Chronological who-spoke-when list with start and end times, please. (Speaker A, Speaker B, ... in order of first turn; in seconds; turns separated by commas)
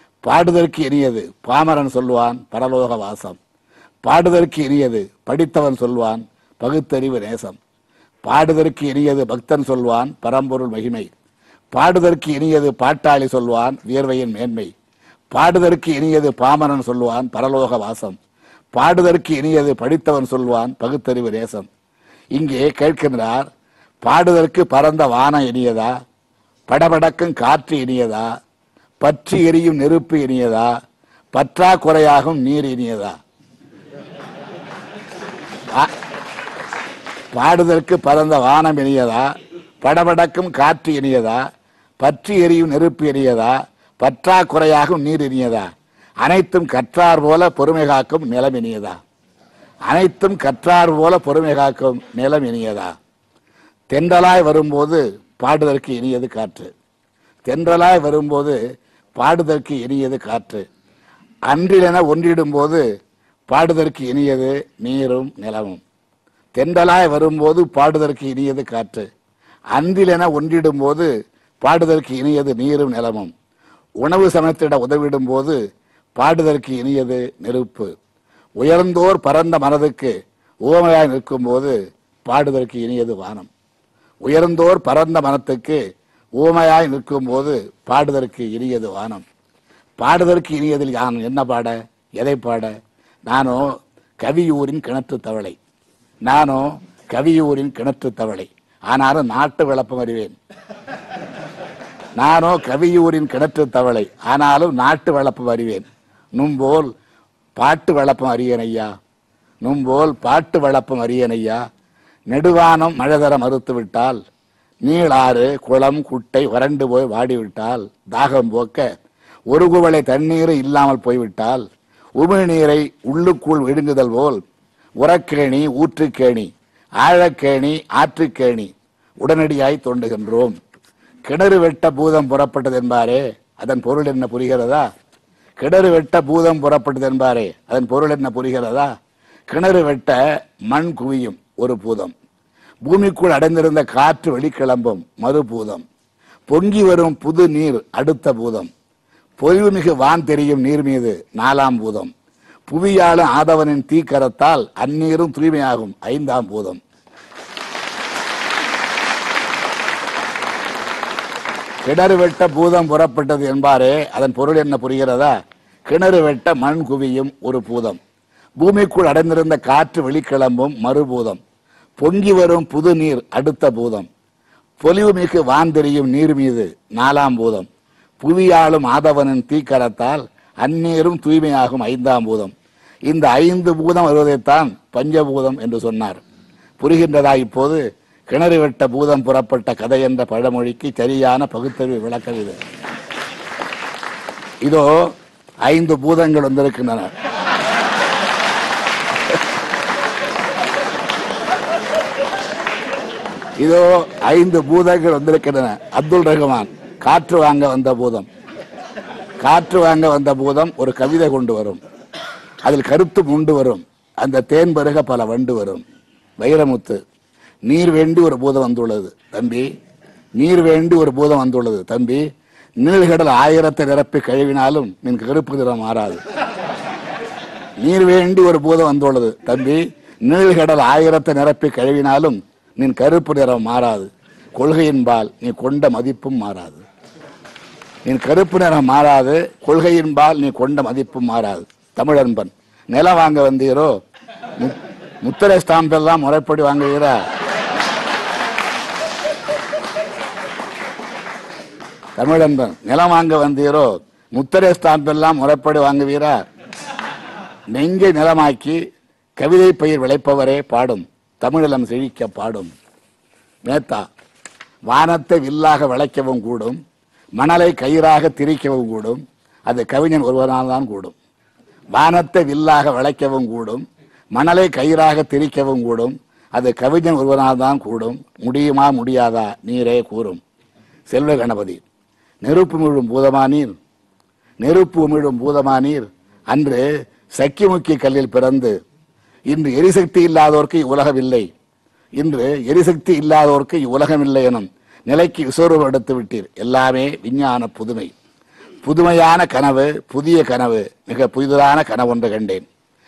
Speaker A: 0.2-3.4, Speaker A: 4.0-7.6, Speaker A: 8.2-11.1, Speaker A: 11.7-14.7, Speaker A: 15.3-18.1, Speaker A: 18.7-21.7, Speaker A: 22.3-23.5, Speaker A: 24.0-25.9, Speaker A: 26.7-28.3, Speaker A: 29.0-30.7, Speaker A: 31.3-33.1, Speaker A: 37.3-39.3, Speaker A: 39.8-41.4, Speaker A: 42.0-45.7, Speaker A: 46.2-49.0, Speaker A: 49.9-52.9, Speaker A: 53.9-56.7, Speaker A: 57.4-58.6, Speaker A: 59.1-60.6, Speaker A: 61.5-62.8, Speaker A: 63.5-65.8, Speaker A: 66.5-69.1, Speaker A: 69.7-71.1, Speaker A: 71.6-73.3, Speaker A: 74.0-75.6, Speaker A: 76.2-77.9, Speaker A: 78.6-80.1, Speaker A: 80.6-83.5, Speaker A: 84.2-85.8, Speaker A: 86.4-89.2, Speaker A: 90.0-92.7, Speaker A: 93.3-93.7, Speaker A: 94.2-95.6, Speaker A: 96.2-100.3, Speaker A: 102.2-106.9, Speaker A: 107.6-108.9, Speaker A: 109.6-111.6, Speaker A: 112.3-114.2, Speaker A: 114.8-118.8, Speaker A: 119.5-121.6, Speaker A: 122.2-124.4, Speaker A: 125.0-126.5, Speaker A: 127.0-130.5, Speaker A: 131.2-134.9, Speaker A: 135.6-138.9, Speaker A: 139.5-142.1, Speaker A: 142.8-145.8, Speaker A: 146.5-148.7, Speaker A: 149.4-152.1, Speaker A: 152.7-156.8, Speaker A: 161.8-165.3, Speaker A: 165.8-168.0, Speaker A: 168.6-171.4, Speaker A: 172.0-174.1, Speaker A: 174.8-177.7, Speaker A: 178.2-182.5, Speaker A: 183.1-186.2, Speaker A: 186.8-192.6, Speaker A: 194.6-195.1, Speaker A: 195.6-197.1, Speaker A: 203.6-208.3, Speaker A: 209.4-211.8, Speaker A: 212.6-215.8, Speaker A: 216.4-217.0, Speaker A: 217.7-219.7, Speaker A: 220.4-222.2, Speaker A: 222.8-226.2, Speaker A: 227.8-236.8, Speaker A: 238.0-243.9, Speaker A: 244.6-247.2, Speaker A: 252.2-256.4, Speaker A: 257.7-258.8, Speaker A: 259.4-262.7, Speaker A: 263.6-264.1, Speaker A: 264.9-266.8, Speaker A: 267.4-271.1, Speaker A: 271.9-280.4, Speaker A: 281.1-281.8, Speaker A: 282.4-283.8, Speaker A: 284.6-288.7, Speaker A: 289.5-291.5, Speaker A: 292.2-298.1, Speaker A: 298.8-302.6